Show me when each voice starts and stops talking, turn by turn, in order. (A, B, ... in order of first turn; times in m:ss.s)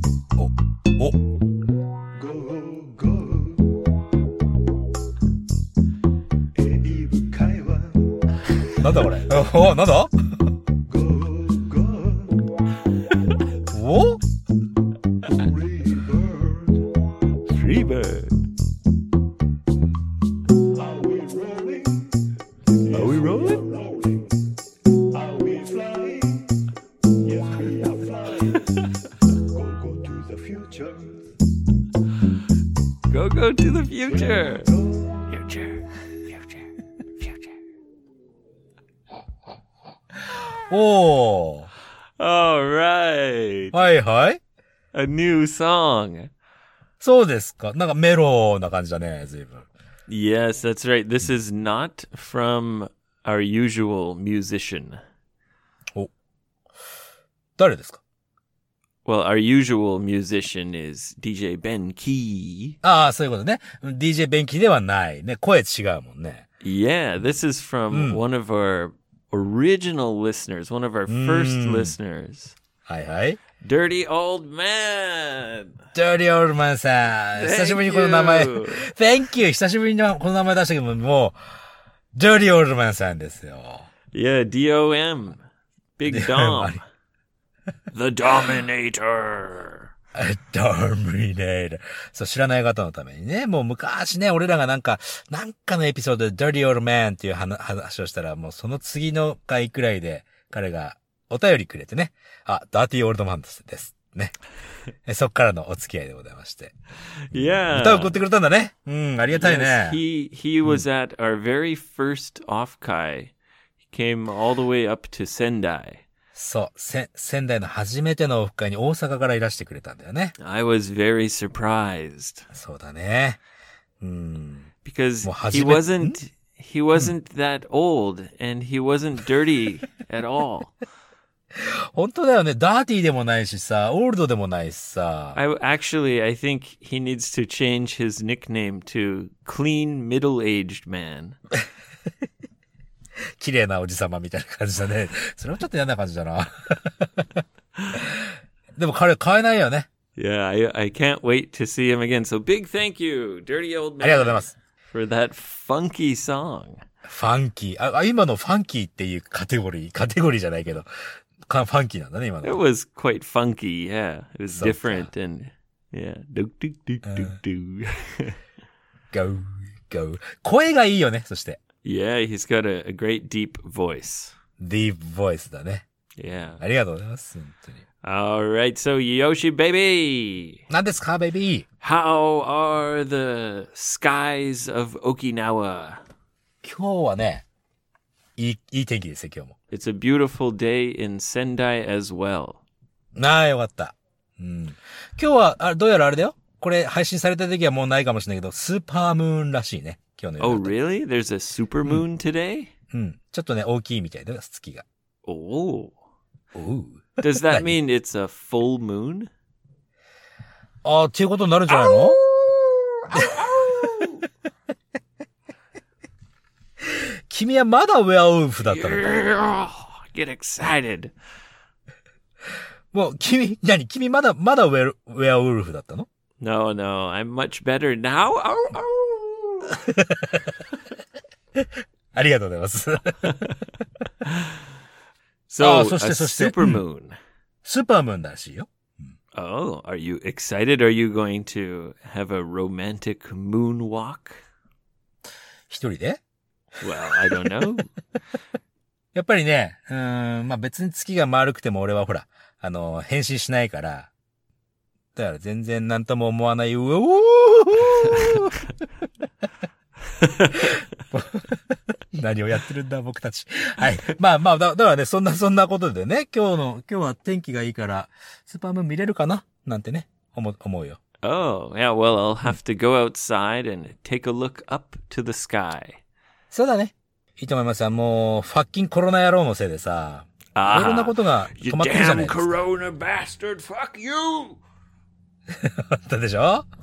0:00.4-0:01.2 A
0:02.1-0:03.8 B
0:06.6-0:08.8 B
0:08.8-0:10.1 A
0:10.9-0:12.4 B
0:13.7-0:14.2 A
0:15.2-0:16.8 B
0:17.5-0:18.3 C
0:20.7-0:22.1 B
0:22.8-0:24.3 B
0:22.9-0:23.6 C
0:25.1-0:26.5 B
0:27.2-0:28.8 B
0:29.4-0:31.2 B
0:33.1-0:34.7 C
0:34.5-0:35.2 B
0:35.3-0:35.8 C
0:40.5-0:41.7 A
0:42.2-0:43.8 C
0:43.7-0:44.4 A
0:44.9-0:46.3 C
0:47.0-0:49.7 A
0:50.1-0:55.0 C
0:57.6-0:58.0 A
0:59.0-1:02.8 C
1:02.8-1:06.5 A
1:06.6-1:12.6 C
1:07.9-1:08.2 A
1:11.1-1:12.0 A
1:12.9-1:13.4 A
1:13.6-1:15.7 C
1:16.0-1:21.4 A
1:17.3-1:18.9 C
1:22.2-1:23.9 A
1:24.1-1:25.4 C
1:26.0-1:26.8 C
1:26.1-1:26.8 A
1:27.9-1:29.9 C
1:30.2-1:44.4 A
1:45.0-1:46.7 A
1:47.3-1:48.2 C
1:47.3-1:50.0 A
1:49.3-1:53.3 C
1:53.9-1:56.0 C
1:56.4-2:00.4 A
2:00.4-2:02.5 C
2:02.5-2:03.4 A
2:04.0-2:04.7 A
2:04.8-2:10.8 C
2:05.2-2:06.2 A
2:11.6-2:15.4 A
2:15.4-2:21.4 C
2:23.4-2:27.4 A
2:27.9-2:29.9 A
2:30.2-2:36.8 C
2:34.0-2:34.5 A
2:37.0-2:40.9 A
2:41.5-2:42.6 A
2:42.4-2:48.4 C
2:44.5-2:45.1 A
2:47.0-2:47.4 A
2:49.1-2:51.6 A
2:51.8-2:54.3 C
2:54.6-2:55.8 A
2:56.2-2:56.6 C
2:56.6-2:57.8 A
2:58.0-3:00.6 C
3:00.7-3:01.7 A
3:01.8-3:06.0 C
3:06.6-3:07.4 A
3:08.4-3:09.6 A
3:09.7-3:12.6 C
3:13.2-3:20.7 A
3:20.4-3:22.7 C
3:22.9-3:24.8 A
3:25.3-3:26.0 C
3:26.5-3:27.7 A
3:27.2-3:29.3 C
3:30.8-3:32.2 A
3:31.7-3:34.2 C
3:33.1-3:33.7 A
3:36.8-3:39.2 A
3:38.6-3:41.1 C
3:42.9-3:46.1 A
3:46.4-3:49.8 C
3:49.7-3:50.6 A
3:51.6-3:53.6 A
3:55.5-3:57.2 C
3:55.6-3:56.8 A
3:57.6-3:59.1 A
3:59.4-4:04.4 C
4:05.7-4:06.2 A
4:06.8-4:07.9 C
4:07.4-4:07.7 A
4:09.1-4:14.1 A
4:15.2-4:18.6 A
4:20.2-4:20.5 C
4:20.5-4:31.0 A
4:31.2-4:36.0 C
4:36.5-4:42.6 A
4:40.5-4:44.6 C
4:45.5-4:46.7 A